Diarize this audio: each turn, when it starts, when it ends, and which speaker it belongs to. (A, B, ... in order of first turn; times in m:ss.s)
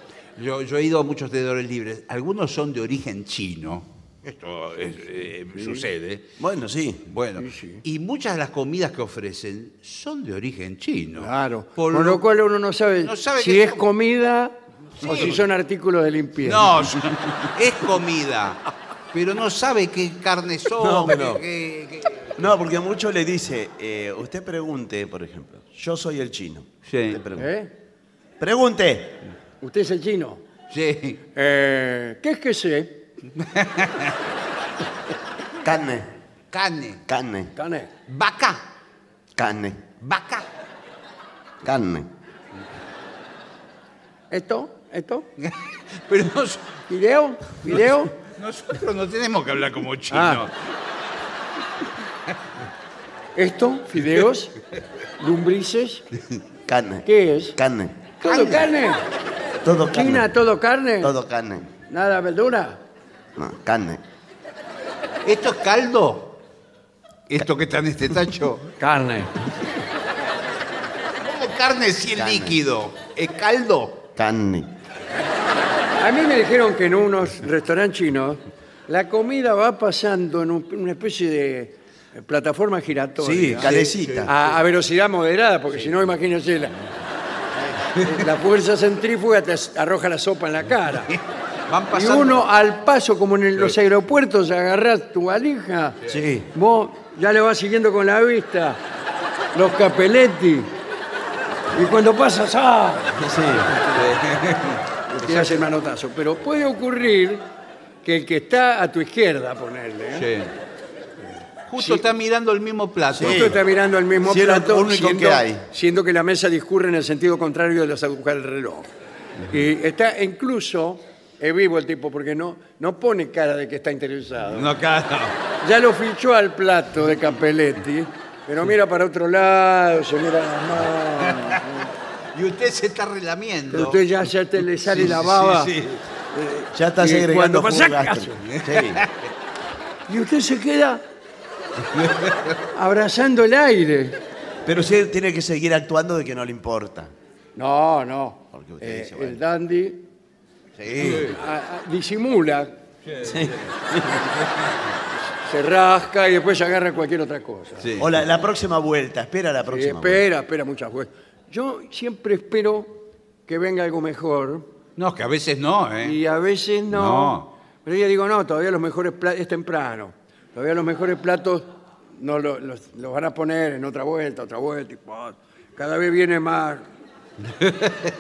0:00.4-0:06.3 A
0:05.5-0:05.9 B
0:06.4-0:07.0 C
0:07.1-0:12.2 A
0:07.4-0:07.8 B
0:11.2-0:17.0 B
0:13.0-0:13.8 A
0:15.0-0:15.4 A
0:16.4-0:18.6 A
0:19.1-0:22.4 A
0:20.8-0:21.4 C
0:22.4-0:27.5 C
0:26.9-0:27.2 A
0:27.4-0:27.7 B
0:28.4-0:29.2 C
0:29.6-0:30.4 B
0:30.7-0:31.2 A
0:31.4-0:33.0 B
0:33.4-0:34.2 A
0:35.6-0:36.1 C
0:36.5-0:37.0 A
0:37.1-0:37.5 C
0:37.6-0:37.9 B
0:38.1-0:38.6 A
0:39.4-0:39.9 C
0:40.0-0:40.5 A
0:41.6-0:42.1 C
0:44.3-0:45.3 B
0:45.4-0:46.7 A
0:46.9-0:48.2 B
0:47.6-0:50.5 A
0:50.1-0:50.4 B
0:53.4-0:54.6 B
0:55.2-0:56.1 B
0:56.7-0:58.1 C
0:57.1-0:57.6 B
0:58.2-0:59.0 B
0:58.2-0:58.7 A
0:59.6-1:00.3 C
0:59.9-1:01.2 B
1:01.0-1:01.7 C
1:01.8-1:02.8 B
1:03.4-1:04.0 C
1:05.2-1:06.4 A
1:07.3-1:08.7 A
1:08.8-1:09.3 B
1:11.2-1:14.1 A
1:12.2-1:12.6 C
1:14.2-1:14.8 C
1:16.0-1:23.7 B
1:23.2-1:24.3 C
1:23.6-1:24.6 A
1:24.2-1:26.8 B
1:25.8-1:26.1 A
1:28.0-1:31.2 B
1:31.7-1:32.4 A
1:31.9-1:36.0 B
1:36.1-1:36.5 C
1:36.5-1:38.8 B
1:39.5-1:40.7 B
1:41.7-1:43.3 B
1:43.2-1:43.8 C
1:43.9-1:44.8 A
1:45.1-1:45.7 C
1:45.2-1:47.5 B
1:48.0-1:50.3 B
1:50.2-1:50.5 A
1:51.7-1:53.6 A
1:51.8-1:52.0 B
1:53.2-1:58.9 B
1:53.2-1:53.6 C
1:54.2-1:55.6 C
1:59.4-2:04.8 B
2:04.5-2:05.4 A
2:05.6-2:11.8 B
2:11.2-2:11.6 A
2:12.3-2:14.0 A
2:13.7-2:15.8 B
2:14.6-2:16.0 A
2:16.3-2:18.4 B
2:16.7-2:19.0 C
2:18.4-2:19.3 A
2:20.1-2:21.0 B
2:22.0-2:22.5 A
2:22.7-2:24.2 B
2:24.7-2:27.1 C
2:27.6-2:30.1 B
2:28.5-2:29.4 C
2:30.8-2:31.4 C
2:31.0-2:31.4 A
2:31.0-2:32.8 B
2:33.1-2:33.7 A
2:33.2-2:34.3 C
2:35.4-2:37.9 B
2:37.8-2:38.1 A
2:38.0-2:40.2 C
2:39.7-2:44.7 B
2:45.0-2:46.2 A
2:46.0-2:56.9 B
2:46.9-2:47.5 A
2:57.6-2:57.9 A